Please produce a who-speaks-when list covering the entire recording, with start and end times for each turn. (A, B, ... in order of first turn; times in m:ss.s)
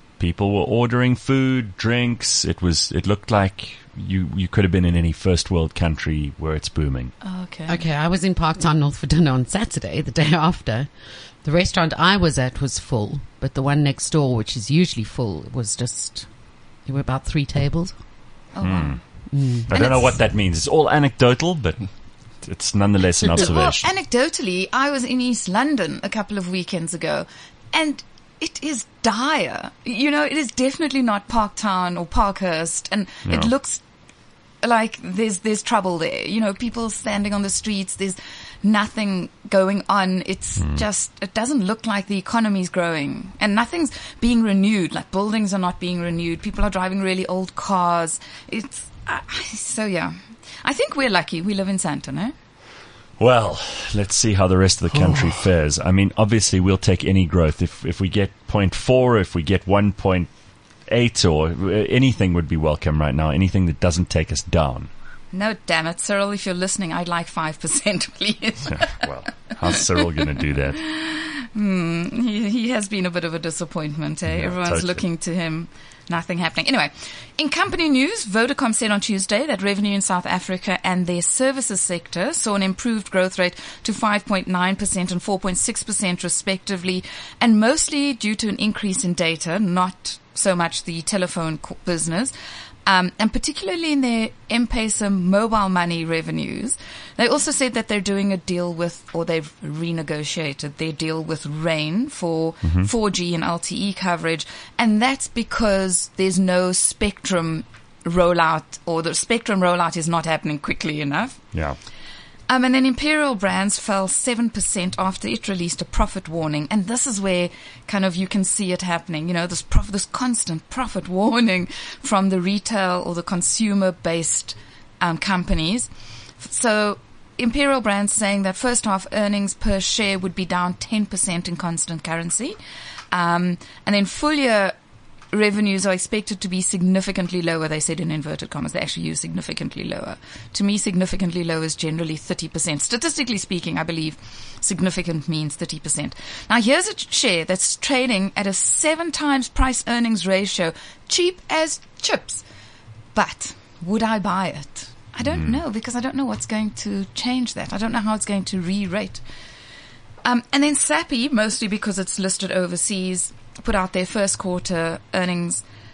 0:00.2-0:07.1 A
0:07.2-0:07.8 B
0:07.7-0:18.0 C
0:18.5-0:19.1 B
0:18.6-0:23.9 A
0:19.2-0:20.1 C
0:19.7-0:20.1 B
0:23.3-0:33.8 B
0:34.6-0:52.3 B
0:40.6-0:40.8 A
0:53.2-1:00.3 A
1:00.9-1:04.9 A
1:05.3-1:09.1 B
1:08.7-1:10.8 A
1:09.7-1:32.3 B
1:14.3-1:15.0 A
1:32.9-1:51.6 B
1:52.5-2:05.9 B
2:06.4-2:12.6 B
2:13.1-2:14.8 B
2:15.3-2:32.4 B
2:33.2-2:39.2 B
2:40.2-2:45.6 B